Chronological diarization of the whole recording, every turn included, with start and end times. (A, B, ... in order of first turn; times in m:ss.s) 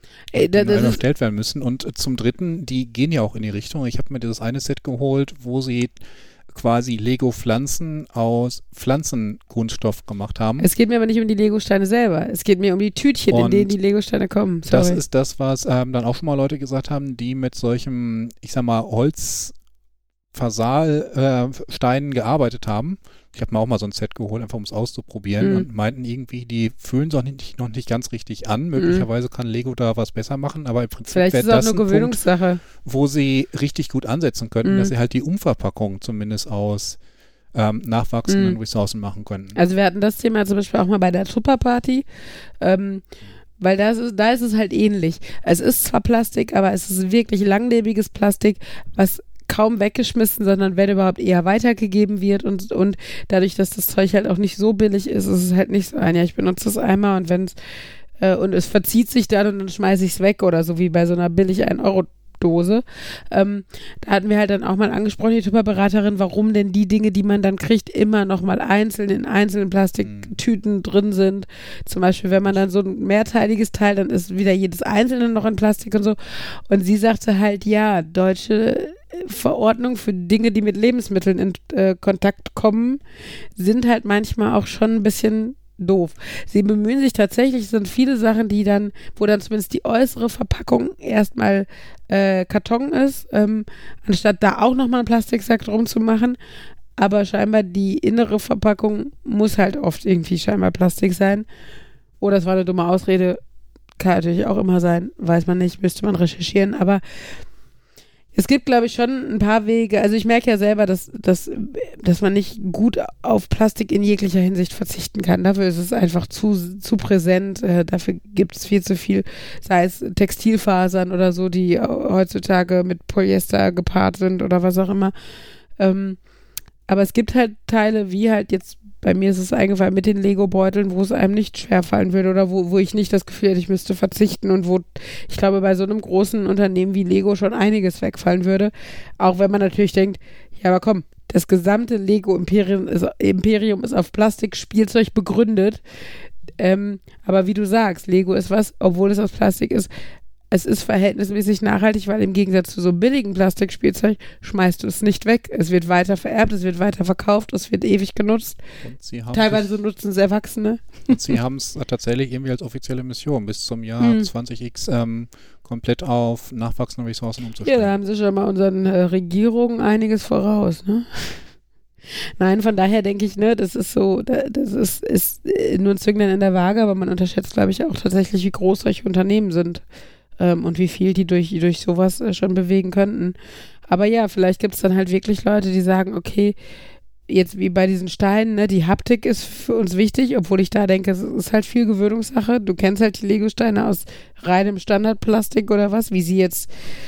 0:00.3-0:01.0 A
0:00.3-0:10.7 B
0:10.6-0:15.0 A
0:13.3-0:13.7 B
0:14.7-0:19.5 B
0:20.3-0:32.2 B
0:25.4-0:25.6 A
0:28.8-0:29.0 A
0:31.1-0:32.6 A
0:32.8-0:37.0 B
0:34.6-0:34.9 A
0:37.5-0:39.6 B
0:38.3-0:38.6 A
0:39.5-0:42.0 A
0:42.6-0:43.0 A
0:43.6-0:57.6 A
0:58.2-1:23.0 A
1:10.0-1:10.3 B
1:23.6-1:36.4 A
1:37.0-1:41.5 A
1:42.2-1:43.4 A
1:44.0-1:47.0 A
1:48.3-2:05.1 A
2:05.8-2:06.2 A
2:06.9-2:25.8 A
2:26.6-2:29.9 A
2:30.5-2:38.6 A
2:38.8-2:39.6 B
2:39.3-2:41.1 A
2:41.1-2:47.9 B
2:44.0-2:44.3 A
2:47.6-2:51.4 A
2:52.4-2:59.8 A
3:00.4-3:03.4 A
3:03.9-3:06.6 A
3:07.3-3:16.7 A